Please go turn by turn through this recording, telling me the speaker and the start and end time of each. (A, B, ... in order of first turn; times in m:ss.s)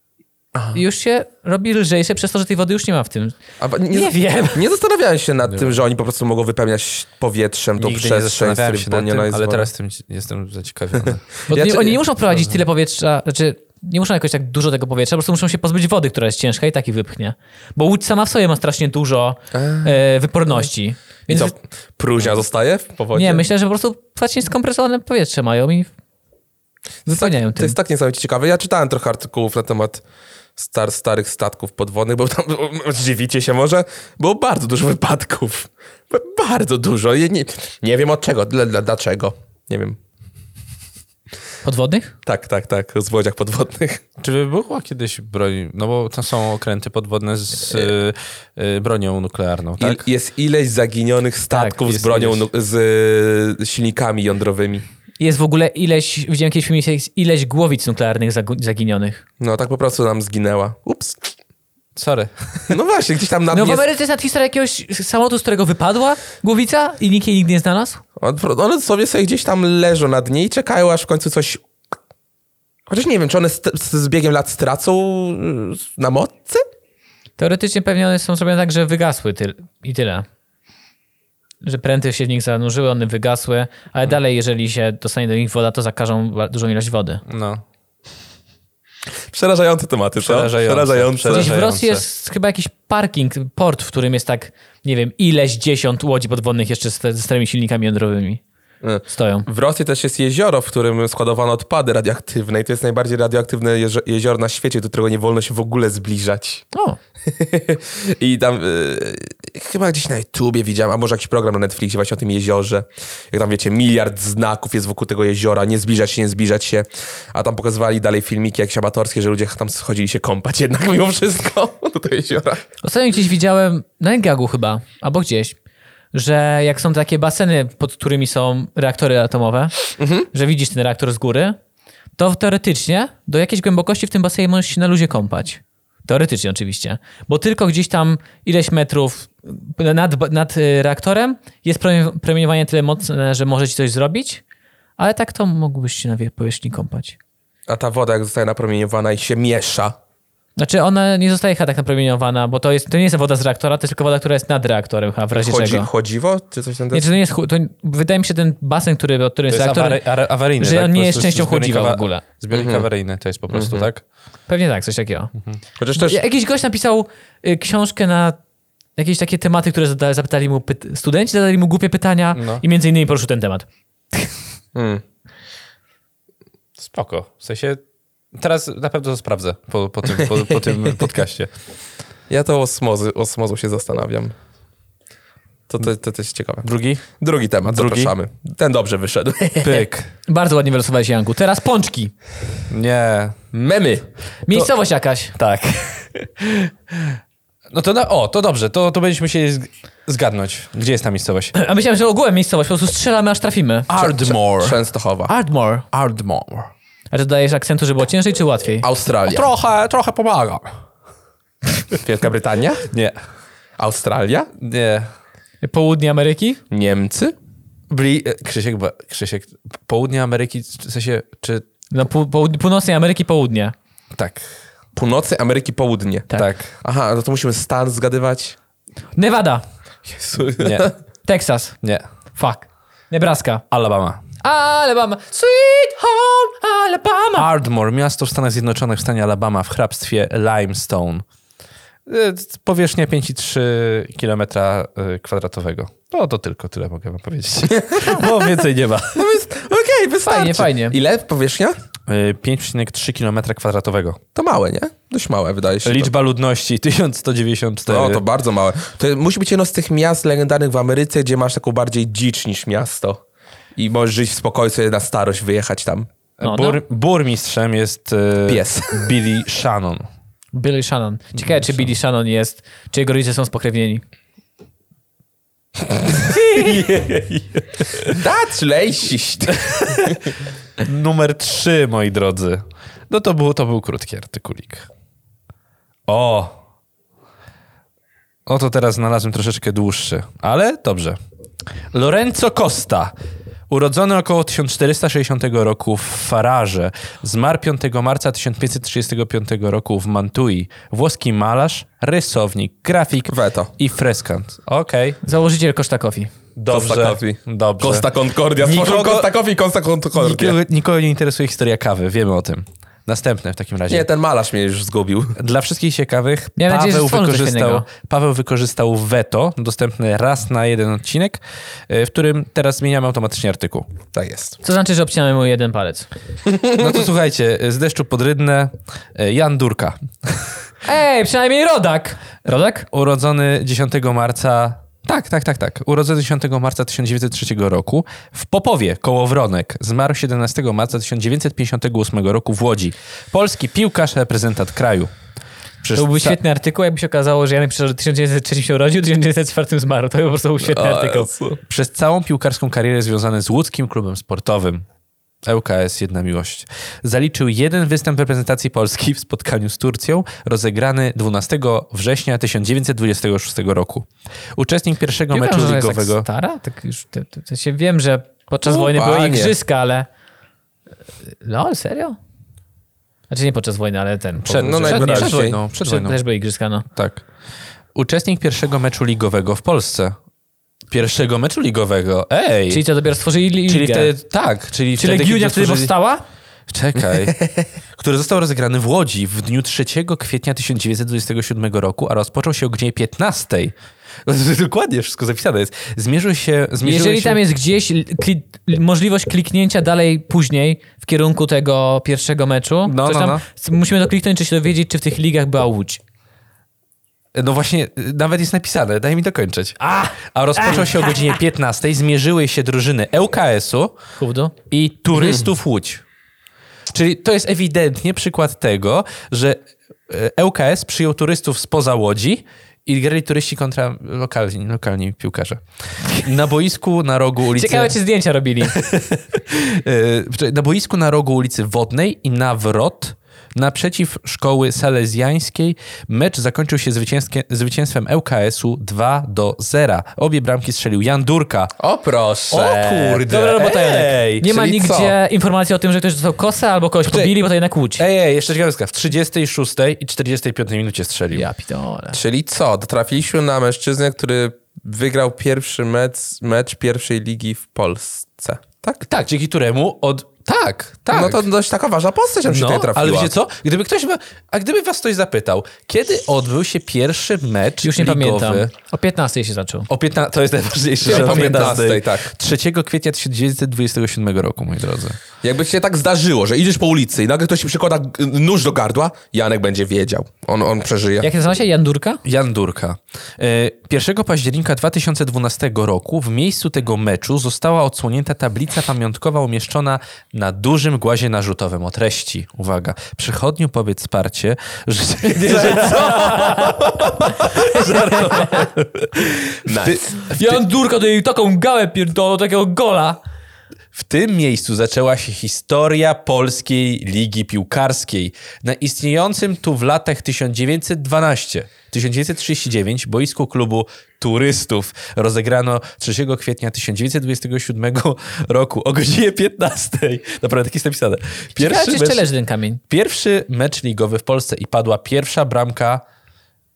0:00.5-0:00.8 A
0:00.7-0:03.4 B
0:03.6-0:09.7 A
0:03.9-0:04.6 B
0:07.8-0:11.4 C
0:11.0-0:12.0 A
0:11.5-0:21.5 B
0:19.5-0:19.9 A
0:21.3-0:23.4 A
0:23.1-0:25.9 B
0:27.0-0:30.0 A
0:27.1-0:27.8 B
0:30.6-0:40.0 A
0:41.6-0:42.1 B
0:42.2-0:44.0 A
0:44.2-0:50.0 C
0:47.7-0:47.9 A
0:49.8-0:54.8 A
0:51.8-0:52.4 C
0:55.2-0:59.2 B
0:59.4-1:01.3 A
1:02.0-1:02.7 C
1:02.7-1:03.8 A
1:03.5-1:08.0 B
1:08.2-1:11.6 A
1:12.9-1:16.6 A
1:17.4-1:20.2 B
1:21.6-1:27.2 B
1:27.3-1:27.6 C
1:29.3-1:31.6 A
1:30.2-1:32.0 C
1:31.3-1:38.4 B
1:38.8-1:46.6 A
1:39.1-1:39.5 B
1:46.7-1:47.0 B
1:47.3-2:02.6 A
2:02.8-2:05.6 B
2:06.1-2:11.6 B
2:10.0-2:10.3 A
2:12.2-2:24.4 B
2:25.0-2:27.2 B
2:27.7-2:30.0 A
2:30.6-2:35.9 B
2:35.3-2:37.1 A
2:36.9-2:40.0 B
2:39.5-2:44.0 C
2:40.6-2:42.2 B
2:42.5-2:42.9 A
2:43.5-2:43.9 A
2:44.5-2:45.3 B
2:45.8-2:46.2 A
2:45.9-2:48.4 B
2:49.0-2:54.3 B
2:52.3-2:52.6 C
2:54.7-2:55.0 A
2:56.8-2:57.8 C
2:58.3-3:01.5 C
3:02.3-3:04.3 A
3:05.7-3:06.6 A
3:06.6-3:07.0 C
3:07.2-3:09.7 A
3:07.6-3:08.1 C
3:09.6-3:10.1 C
3:09.7-3:12.1 B
3:12.7-3:13.4 C
3:13.5-3:14.1 A
3:14.5-3:15.3 B
3:15.3-3:17.2 C
3:17.7-3:21.5 C
3:21.5-3:23.9 B
3:23.9-3:24.8 C
3:24.0-3:25.3 A
3:25.3-3:25.8 B
3:25.9-3:26.7 C
3:27.1-3:28.8 B
3:28.8-3:29.4 A
3:29.3-3:30.7 C
3:32.0-3:32.9 A
3:32.9-3:33.2 C
3:33.8-3:34.5 A
3:34.6-3:35.1 C
3:35.6-3:36.6 B
3:36.7-3:37.3 A
3:37.9-3:41.6 C
3:41.9-3:43.7 B
3:44.1-3:44.5 C
3:44.9-3:48.6 A
3:46.3-3:46.7 C
3:49.2-3:49.6 B
3:50.1-3:50.9 A
3:50.6-3:50.9 C
3:51.2-3:51.8 B
3:52.3-3:53.6 B
3:53.7-3:54.2 C
3:54.4-3:57.5 B
3:57.4-4:01.2 C
4:02.1-4:09.3 C
4:07.8-4:08.5 A
4:09.1-4:11.7 A
4:10.2-4:11.0 B
4:12.1-4:14.2 C
4:14.3-4:16.1 A
4:15.8-4:18.2 C
4:17.9-4:23.2 A
4:23.8-4:26.1 A
4:26.4-4:30.1 C
4:26.4-4:26.8 B
4:28.4-4:29.1 A
4:30.5-4:34.0 B
4:31.4-4:31.9 C
4:36.1-4:36.8 B
4:36.5-4:38.1 C
4:38.1-4:40.2 A
4:39.5-4:40.2 C
4:40.8-4:44.9 C
4:46.1-4:46.5 C
4:48.5-4:51.2 C
4:51.9-4:53.1 C
4:53.7-5:05.2 C
5:03.3-5:03.7 A
5:05.2-5:06.3 B
5:06.6-5:08.1 C
5:06.7-5:10.6 A
5:08.6-5:09.3 C
5:10.2-5:14.1 C
5:13.9-5:15.4 A
5:15.4-5:23.9 C
5:16.6-5:17.9 B
5:24.1-5:24.6 A
5:24.6-5:26.1 B
5:26.5-5:27.0 A
5:26.7-5:30.6 C
5:30.8-5:32.9 B
5:32.9-5:45.1 C
5:45.8-5:46.4 C
5:45.9-5:51.3 B
5:50.6-5:51.6 A
5:51.7-5:54.8 C
5:55.4-6:06.2 C
6:05.3-6:10.1 B
6:08.6-6:09.5 A
6:11.4-6:12.2 B
6:13.3-6:16.8 B
6:14.4-6:16.2 C
6:14.6-6:15.6 A
6:16.9-6:17.2 C
6:17.9-6:20.2 C
6:20.9-6:22.8 C
6:22.7-6:24.1 B
6:23.7-6:25.9 C
6:25.0-6:26.2 B
6:26.7-6:33.7 C
6:34.2-6:37.4 C
6:36.8-6:46.0 B
6:42.8-6:43.4 C
6:47.3-6:53.9 C
6:49.8-6:51.4 B
6:54.2-6:54.5 B
6:54.7-6:56.0 C
6:55.1-6:55.4 A
6:56.9-7:07.9 C
7:07.5-7:08.8 B
7:08.6-7:21.7 C
7:21.8-7:23.3 A
7:22.5-7:24.5 C
7:23.3-7:28.0 B
7:24.4-7:25.1 A
7:27.0-7:27.3 C
7:28.0-7:31.4 C
7:31.3-7:32.2 B
7:32.1-7:39.0 A
7:39.0-7:41.4 C
7:41.1-7:43.3 A
7:42.5-7:48.7 C
7:47.8-7:49.9 B
7:49.9-7:55.2 C
7:51.0-7:52.3 A
7:51.1-7:51.7 B
7:55.4-8:01.3 A
8:01.2-8:02.2 B
8:02.2-8:20.6 C
8:15.3-8:18.6 B
8:19.6-8:20.1 A
8:20.3-8:23.2 B
8:23.9-8:42.2 C
8:41.6-8:42.8 B
8:42.9-8:46.0 C